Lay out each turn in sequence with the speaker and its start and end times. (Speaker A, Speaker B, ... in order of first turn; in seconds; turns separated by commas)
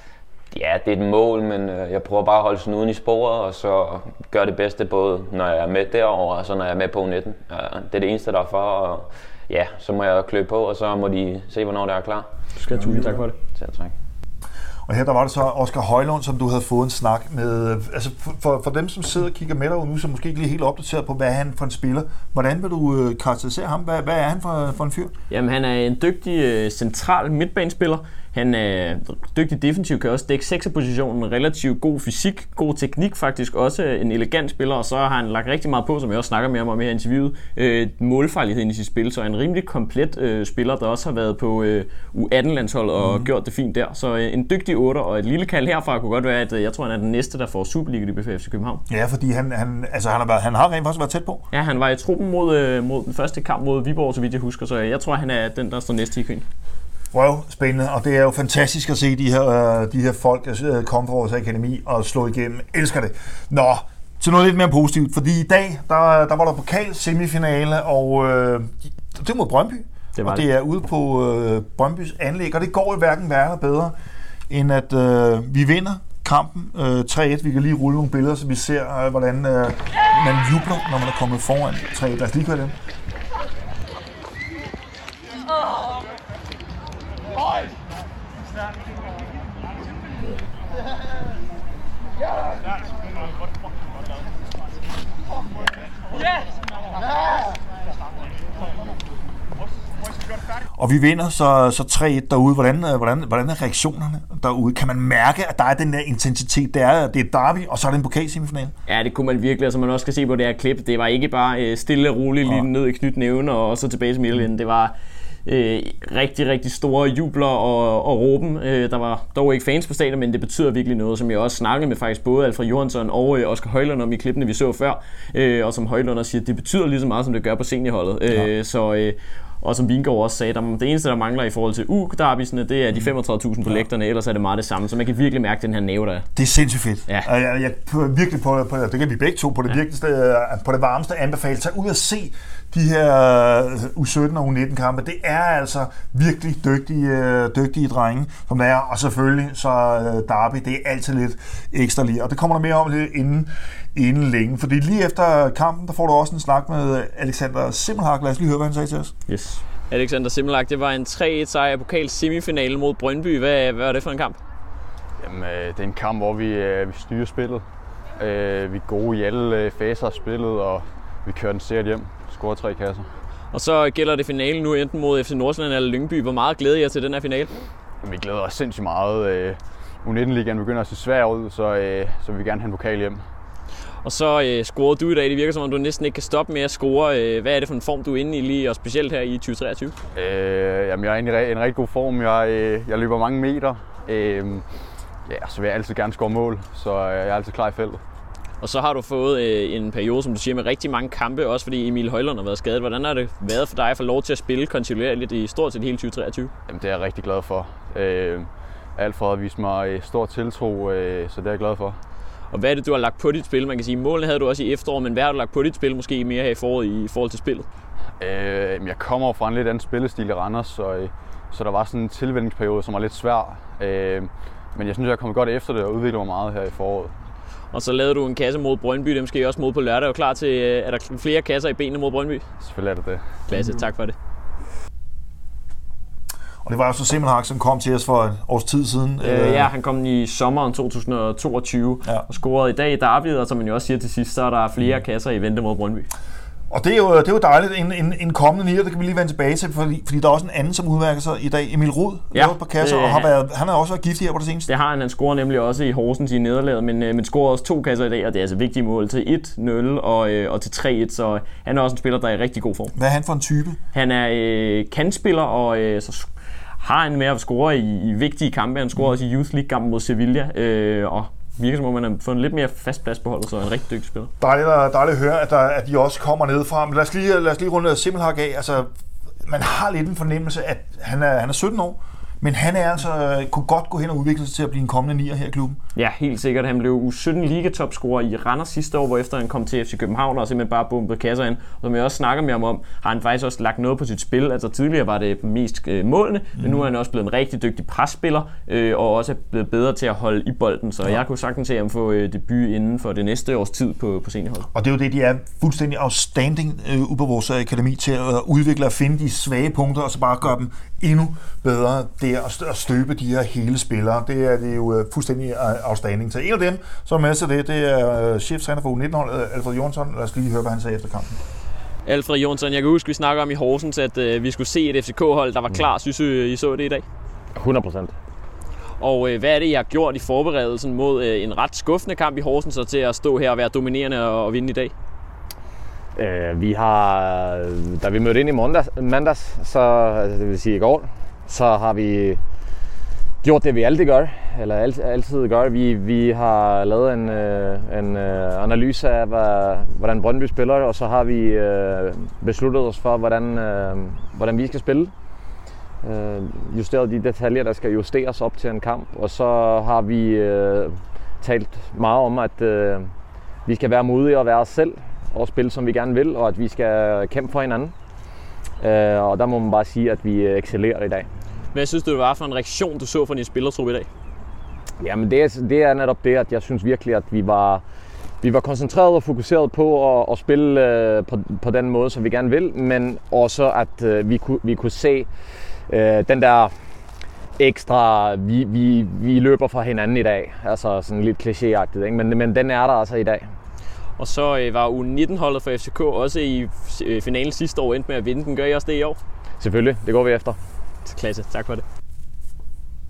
Speaker A: 0.5-12.3, Speaker B: 12.6-13.4, Speaker A: 12.8-13.9, Speaker C: 14.9-25.1, Speaker B: 25.3-48.8, Speaker C: 43.0-43.3, Speaker C: 48.9-51.4, Speaker B: 51.5-56.5, Speaker C: 57.1-73.9, Speaker B: 70.2-70.4, Speaker C: 74.5-82.8, Speaker C: 100.8-108.7, Speaker B: 108.9-114.9, Speaker B: 115.5-136.3, Speaker C: 136.4-159.1, Speaker B: 159.3-164.4, Speaker D: 165.2-167.6, Speaker D: 168.2-173.1, Speaker B: 173.5-177.6, Speaker D: 178.0-183.2, Speaker B: 184.0-189.9, Speaker D: 190.2-194.6, Speaker D: 195.3-198.0, Speaker B: 198.6-206.5, Speaker D: 206.7-212.0, Speaker B: 212.5-217.7, Speaker D: 218.2-227.2, Speaker B: 227.7-232.5, Speaker D: 232.6-233.5, Speaker B: 233.5-234.2, Speaker C: 236.7-239.7, Speaker B: 239.2-246.1, Speaker C: 246.7-254.7, Speaker B: 252.3-253.3, Speaker B: 254.7-262.9, Speaker C: 263.0-263.8, Speaker B: 263.9-266.3, Speaker B: 266.8-274.3, Speaker C: 274.4-278.9, Speaker C: 279.5-285.8, Speaker B: 285.9-304.7, Speaker C: 304.7-321.4, Speaker B: 322.1-327.1, Speaker E: 327.6-328.2, Speaker B: 329.0-334.9, Speaker E: 336.1-342.4, Speaker E: 343.4-355.1, Speaker E: 356.0-363.1, Speaker E: 363.6-367.9, Speaker E: 368.8-371.3, Speaker B: 371.7-374.1, Speaker E: 375.0-377.8, Speaker E: 378.4-385.3, Speaker E: 385.9-386.7, Speaker E: 387.6-393.5, Speaker B: 394.2-399.2, Speaker E: 399.6-400.6, Speaker B: 401.1-401.8